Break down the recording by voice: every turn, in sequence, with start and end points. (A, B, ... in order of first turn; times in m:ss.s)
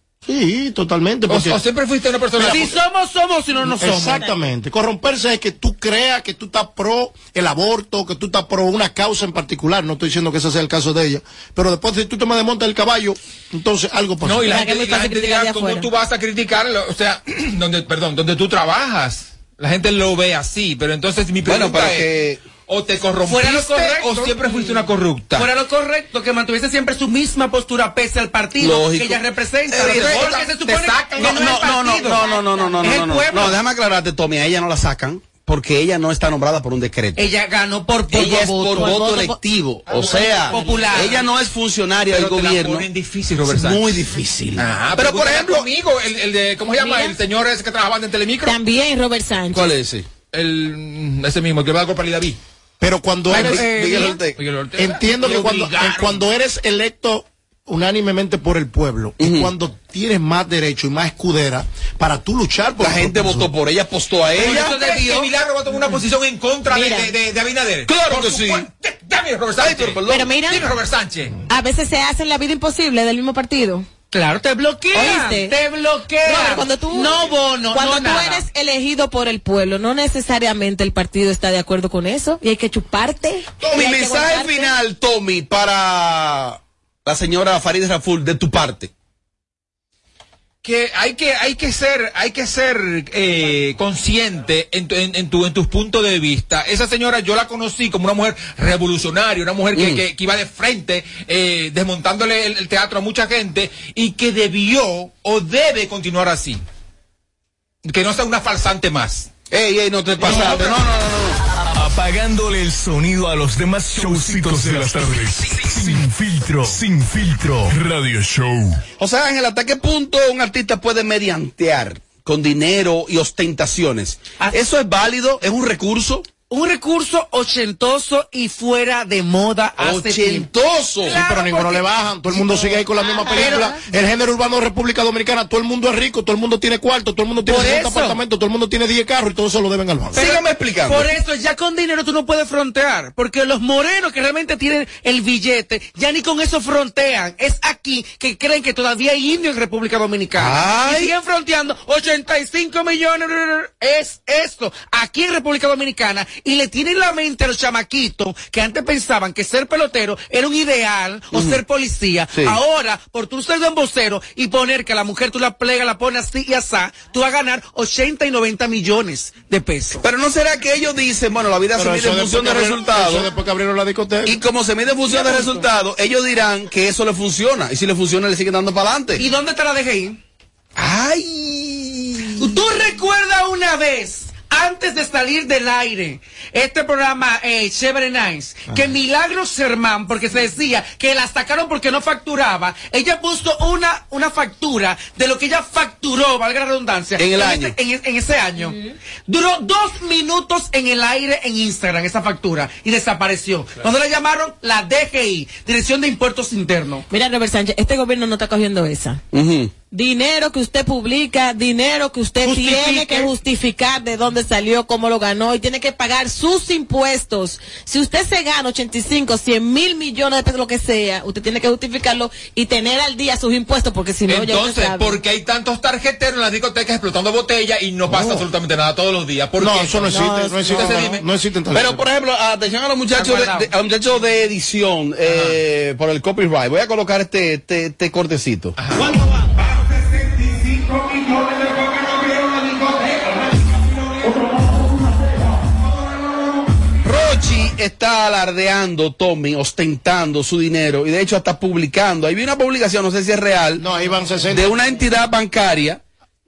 0:00.2-0:01.6 A
0:01.3-0:02.8 B
0:02.4-0:04.2 C
0:03.8-0:14.6 A
0:14.2-0:22.1 B
0:14.4-0:15.9 D
0:21.4-0:22.4 E
0:22.7-0:25.5 B
0:23.2-0:24.4 C
0:25.3-0:33.6 C
0:28.6-0:30.4 E
0:29.8-0:31.8 B
0:31.2-0:37.2 E
0:37.2-0:39.0 C
0:38.1-0:42.8 E
0:38.8-0:39.4 D
0:39.9-0:41.2 C
0:40.5-0:41.1 D
0:42.1-0:44.0 B
0:43.4-0:45.7 E
0:44.6-0:48.6 B
0:46.8-0:47.2 D
0:48.4-0:49.7 D
0:49.5-0:50.0 E
0:50.3-0:52.4 B
0:52.8-0:53.7 A
0:53.3-0:54.4 E
0:53.4-0:54.2 C
0:54.4-0:55.6 B
0:54.7-1:03.5 A
0:55.2-0:56.1 C
0:59.2-0:59.5 E
1:02.8-1:04.7 E
1:04.4-1:05.3 C
1:04.4-1:11.3 B
1:06.7-1:07.1 D
1:07.9-1:08.7 E
1:09.6-1:10.2 E
1:10.1-1:10.6 D
1:11.5-1:13.8 D
1:14.1-1:18.4 C
1:14.9-1:15.6 D
1:16.2-1:17.1 D
1:17.7-1:24.7 D
1:23.6-1:28.9 E
1:30.6-1:46.6 B
1:39.7-1:40.0 E
1:47.8-1:49.3 B
1:49.5-1:51.4 E
1:50.2-1:50.8 B
1:51.7-1:58.8 F
1:59.0-2:06.3 E
2:06.5-2:10.5 C
2:09.8-2:11.2 E
2:11.0-2:13.8 C
2:11.1-2:20.2 A
2:17.4-2:18.2 C
2:20.1-2:50.0 C
2:20.1-2:21.1 E
2:30.4-2:31.1 E
2:41.3-2:41.6 E
2:42.3-2:42.6 E
2:50.0-2:53.3 E
2:51.7-2:54.4 A
2:54.2-2:59.2 E
2:55.1-2:55.6 C
2:59.2-3:00.2 C
3:00.8-3:02.6 E
3:02.4-3:27.0 C
3:17.2-3:17.8 E
3:27.1-3:29.2 D
3:29.3-3:29.7 E
3:29.9-3:45.2 D
3:32.4-3:33.3 C
3:44.3-3:51.2 B
3:48.1-3:48.4 A
3:49.6-3:52.0 A
3:50.1-3:51.0 D
3:51.7-3:58.7 E
3:53.2-3:53.7 C
3:55.2-3:55.6 B
3:58.8-3:59.2 B
4:01.4-4:03.5 B
4:07.0-4:13.8 E
4:13.8-4:14.7 A
4:14.5-4:16.0 E